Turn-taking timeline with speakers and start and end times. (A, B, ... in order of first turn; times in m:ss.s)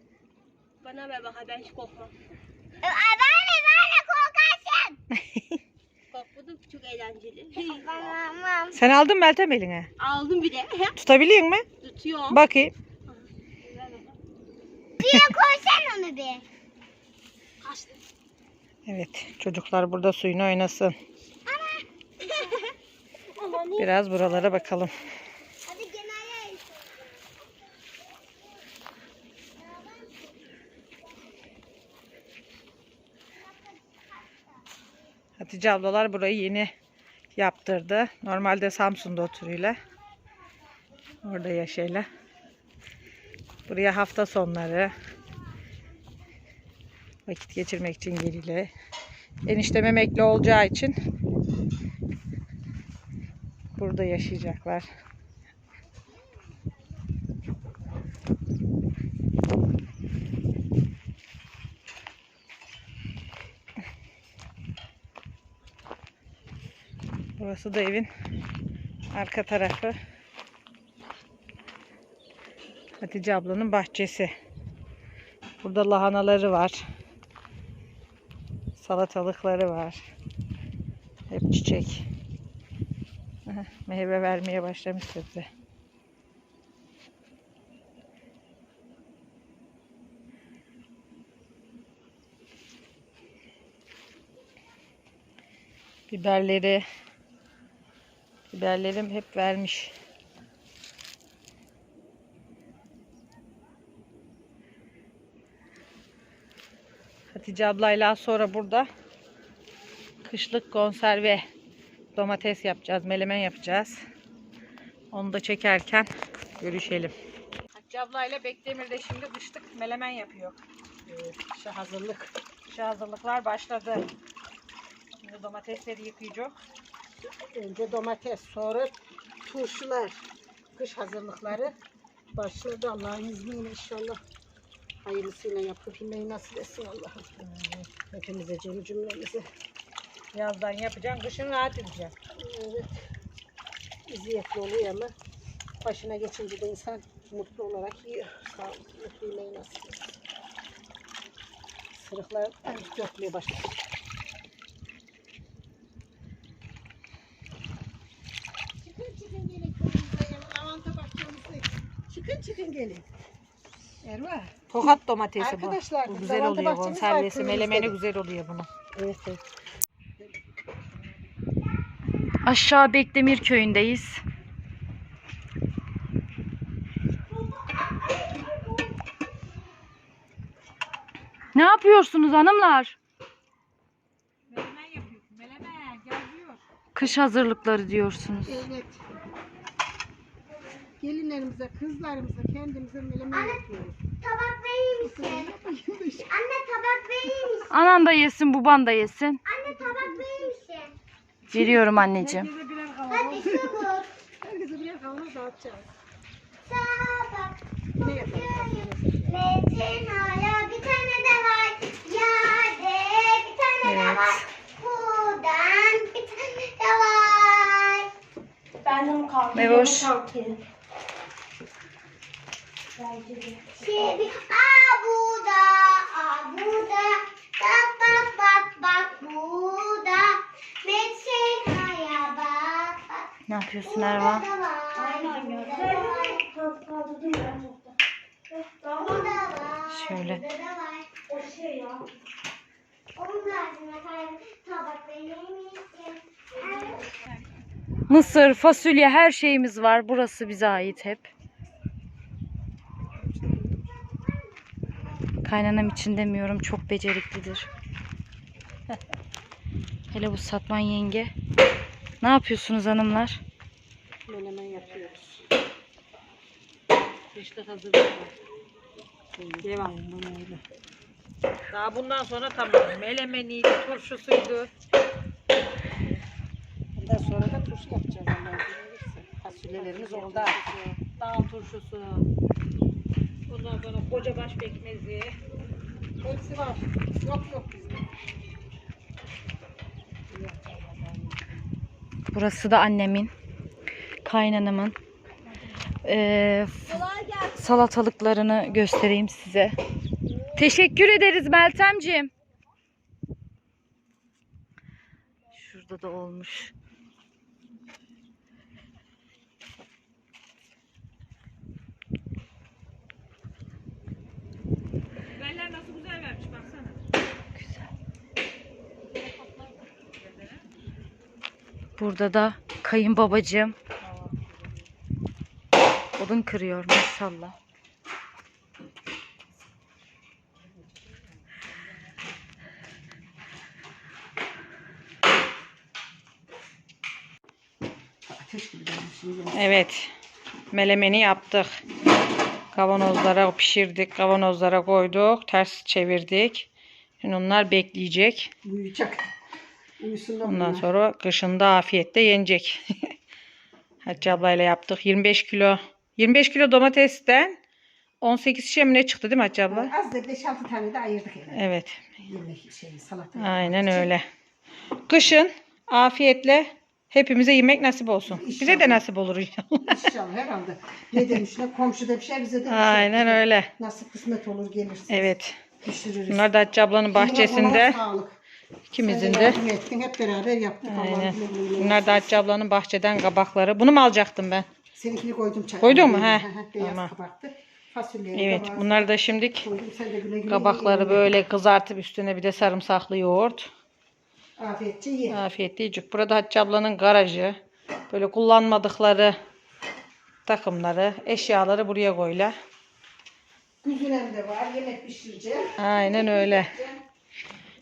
0:00.8-0:02.1 A
0:02.8-0:05.0 B
0:06.1-0:08.1 A
0:07.6-0:08.8 B
0:08.8-0:09.9 C
0:10.0-0:11.0 A
0:11.0-0:11.6 C
0:11.8-0:12.4 A
0:12.3-0:12.7 C
0:13.1-0:14.1 A
0:15.0-0:16.4 B
0:17.6-0:18.0 A
0:18.8-0:21.0 C
0:21.4-0:22.4 B
0:22.3-0:22.7 A
0:23.3-0:24.9 A
0:23.8-0:25.0 C
0:25.6-0:26.9 B
0:29.6-0:30.3 B
0:33.5-0:33.8 B
0:35.4-0:36.7 C
0:37.3-0:39.8 C
0:41.2-0:42.1 C
0:43.7-0:44.9 C
0:47.3-0:48.7 C
0:49.4-0:51.0 C
0:53.8-0:54.9 C
1:07.4-1:08.1 C
1:09.1-1:10.0 C
1:13.0-1:14.3 C
1:15.6-1:16.8 C
1:18.8-1:20.0 C
1:21.3-1:22.0 C
1:23.5-1:25.5 C
1:36.1-1:36.8 C
1:38.5-1:40.0 C
1:47.3-1:48.9 C
1:50.2-1:51.4 C
1:52.1-1:54.0 C
1:55.1-1:57.1 C
1:57.7-2:00.6 C
2:01.1-2:02.3 D
2:02.7-2:04.1 C
2:05.2-2:06.5 C
2:07.3-2:08.9 D
2:09.4-2:11.7 D
2:12.3-2:14.2 D
2:15.0-2:17.3 D
2:17.4-2:17.9 C
2:18.0-2:19.5 D
2:20.3-2:22.2 C
2:22.3-2:23.0 D
2:24.1-2:25.1 D
2:25.8-2:30.2 D
2:31.9-2:33.7 D
2:38.8-2:43.0 D
2:44.0-2:44.6 D
2:44.7-2:48.7 C
2:45.4-2:48.0 D
2:48.9-2:49.4 D
2:52.4-2:54.2 E
3:01.5-3:03.0 E
3:04.5-3:06.6 C
3:06.9-3:08.6 E
3:08.4-3:09.0 D
3:11.0-3:14.0 D
3:13.3-3:13.6 B
3:14.1-3:15.6 B
3:15.0-3:16.3 D
3:16.3-3:18.0 B
3:17.7-3:19.4 E
3:19.4-3:20.9 B
3:19.6-3:20.5 D
3:21.5-3:22.5 E
3:21.6-3:25.9 D
3:23.1-3:24.1 B
3:26.6-3:38.1 B
3:28.0-3:29.4 D
3:33.8-3:34.4 C
3:38.8-3:40.6 A
3:39.5-3:40.1 E
3:43.0-3:43.6 A
3:43.7-3:53.3 B
3:53.5-3:54.4 E
3:53.8-3:56.5 B
3:55.0-3:57.9 A
3:58.8-3:59.3 A
3:58.8-4:01.1 B
3:59.9-4:00.4 E
4:01.3-4:02.0 A
4:03.2-4:07.1 B
4:08.1-4:11.3 E
4:13.3-4:13.7 D
4:15.4-4:17.7 E
4:20.1-4:21.3 E
4:22.2-4:23.4 E
4:24.3-4:25.4 D
4:27.3-4:28.3 C
4:29.3-4:30.6 D
4:29.6-4:30.0 C
4:31.7-4:34.7 C
4:37.0-4:41.0 D
4:39.7-4:42.2 C
4:43.5-4:45.4 C
4:46.2-4:48.0 D
4:50.3-4:51.4 D
4:52.3-4:53.3 E
4:54.2-4:55.0 E
4:56.0-4:57.0 E
4:56.8-4:57.8 A
4:57.6-4:59.8 E
5:00.6-5:02.3 E
5:05.5-5:06.7 E
5:15.4-5:17.0 C
5:17.6-5:17.9 E
5:20.2-5:20.6 C
5:22.0-5:23.7 E
5:24.0-5:24.3 C
5:26.2-5:27.6 E
5:38.3-5:39.7 D
5:39.5-5:40.1 C
5:40.7-5:41.8 C
5:42.7-5:46.7 C
5:47.2-5:48.5 C
5:48.6-5:49.3 D
5:50.0-5:50.9 D
5:50.4-5:53.1 C
5:54.0-5:57.6 C
5:58.2-5:59.9 C
5:59.7-6:01.6 D
6:01.5-6:02.1 C
6:02.2-6:04.1 D
6:03.4-6:04.2 C
6:05.1-6:10.1 C
6:08.2-6:09.0 D
6:09.8-6:15.3 D
6:11.1-6:11.4 C
6:12.7-6:13.7 C
6:15.1-6:15.6 C
6:15.8-6:16.5 D
6:16.3-6:18.0 C
6:17.1-6:18.3 D
6:18.9-6:19.6 C
6:19.0-6:22.3 D
6:20.8-6:24.7 C
6:24.9-6:31.3 D
6:25.8-6:27.1 C
6:28.3-6:29.7 C
6:30.5-6:33.7 C
6:34.6-6:35.4 D
6:35.3-6:37.6 C
6:38.1-6:39.4 C
6:40.4-6:42.5 C
6:43.8-6:47.0 D
6:45.8-6:46.7 C